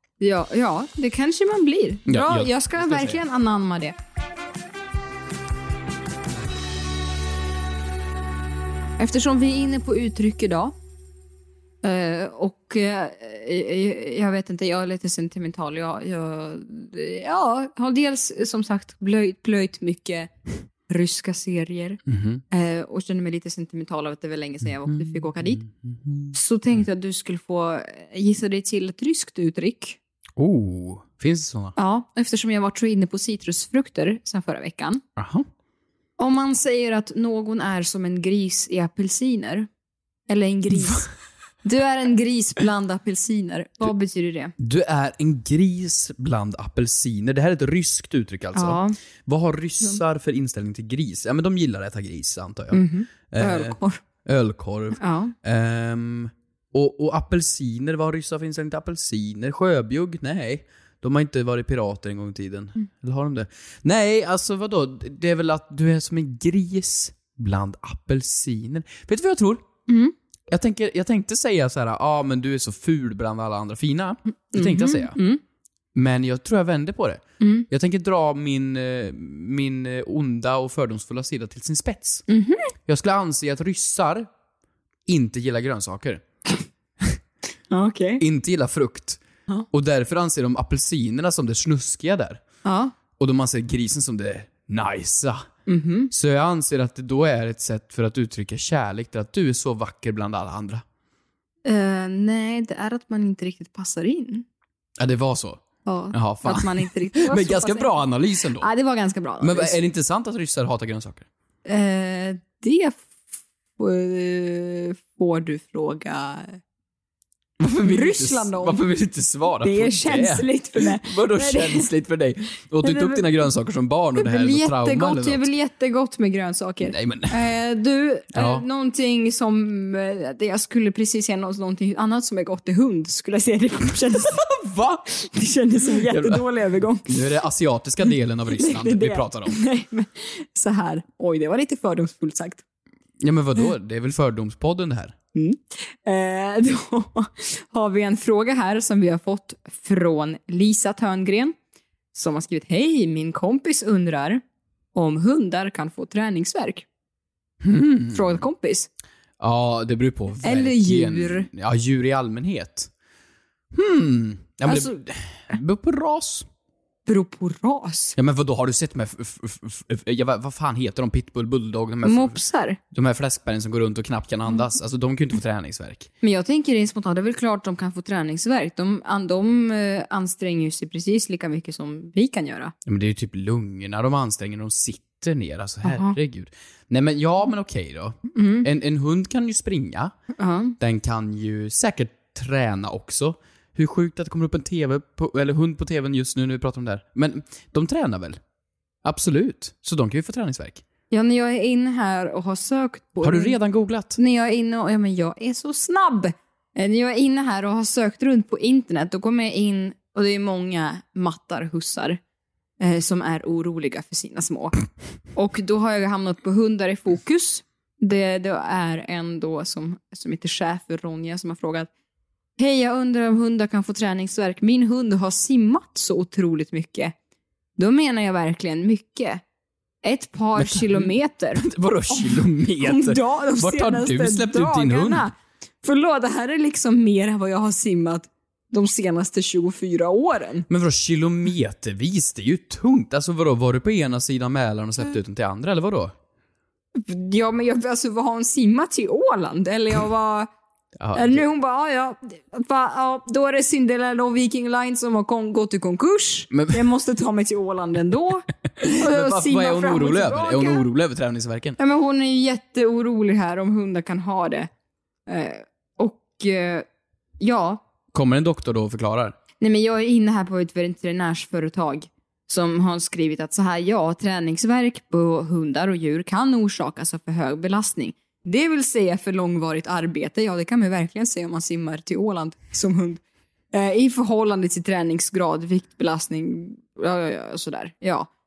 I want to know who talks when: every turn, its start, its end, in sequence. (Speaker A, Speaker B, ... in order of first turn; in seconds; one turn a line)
Speaker A: 0.2-4.0
Speaker B: 2.1-3.2
Speaker A: 9.0-10.7
Speaker A: 11.8-20.3
Speaker A: 20.9-25.6
Speaker B: 22.1-22.4
Speaker B: 24.8-26.3
Speaker A: 26.3-30.0
Speaker B: 30.4-31.8
Speaker A: 31.8-35.0
Speaker B: 35.2-35.5
Speaker A: 36.2-39.7
Speaker A: 40.3-41.1
Speaker A: 41.6-44.5
Speaker B: 44.6-69.6
Speaker A: 48.5-49.0
Speaker A: 52.7-54.0
Speaker A: 55.0-55.3
Speaker A: 69.9-70.1
Speaker B: 70.5-75.2
Speaker A: 74.5-75.4
Speaker B: 75.9-82.2
Speaker A: 77.4-77.7
Speaker A: 82.3-82.7
Speaker B: 82.8-84.3
Speaker B: 85.1-86.2
Speaker A: 87.7-88.2
Speaker B: 88.2-92.4
Speaker A: 92.6-92.9
Speaker B: 93.2-95.5
Speaker A: 95.7-96.1
Speaker B: 96.1-100.8
Speaker A: 101.6-104.5
Speaker B: 105.0-105.6
Speaker A: 105.8-108.0
Speaker B: 106.1-108.7
Speaker A: 108.6-109.8
Speaker B: 109.4-111.3
Speaker A: 111.6-113.2
Speaker A: 113.8-116.6
Speaker B: 117.6-125.5
Speaker A: 117.8-118.8
Speaker A: 119.6-121.9
Speaker A: 122.8-123.2
Speaker A: 124.2-134.5
Speaker B: 126.8-127.4
Speaker B: 128.3-128.6
Speaker B: 134.1-135.1
Speaker A: 135.2-137.1
Speaker B: 135.8-136.4
Speaker B: 137.1-139.6
Speaker A: 138.5-142.6
Speaker B: 143.2-145.1
Speaker A: 145.3-151.5
Speaker A: 152.1-154.4
Speaker A: 154.9-156.8
Speaker B: 157.6-158.4
Speaker A: 158.1-158.9
Speaker B: 159.4-162.9
Speaker A: 160.4-161.5
Speaker B: 163.7-166.5
Speaker A: 164.6-164.9
Speaker A: 167.1-168.2
Speaker B: 168.2-176.1
Speaker A: 172.0-172.8
Speaker A: 176.2-182.7
Speaker B: 182.8-190.1
Speaker A: 185.8-186.2
Speaker A: 188.3-188.7
Speaker A: 190.3-190.8
Speaker B: 190.8-198.4
Speaker B: 199.0-200.8
Speaker A: 201.1-203.6
Speaker B: 203.2-204.2
Speaker A: 204.2-212.2
Speaker A: 212.8-214.7
Speaker A: 215.3-221.9
Speaker A: 222.6-227.1
Speaker A: 227.8-229.4
Speaker A: 230.0-240.7
Speaker B: 230.6-235.2
Speaker B: 240.7-246.1
Speaker A: 246.9-250.5
Speaker B: 251.0-251.4
Speaker A: 251.1-260.8
Speaker B: 256.5-256.8
Speaker B: 258.8-261.8
Speaker A: 261.8-264.7
Speaker A: 265.3-266.9
Speaker A: 267.4-267.8
Speaker B: 268.1-269.3
Speaker A: 269.6-283.2
Speaker A: 283.7-288.3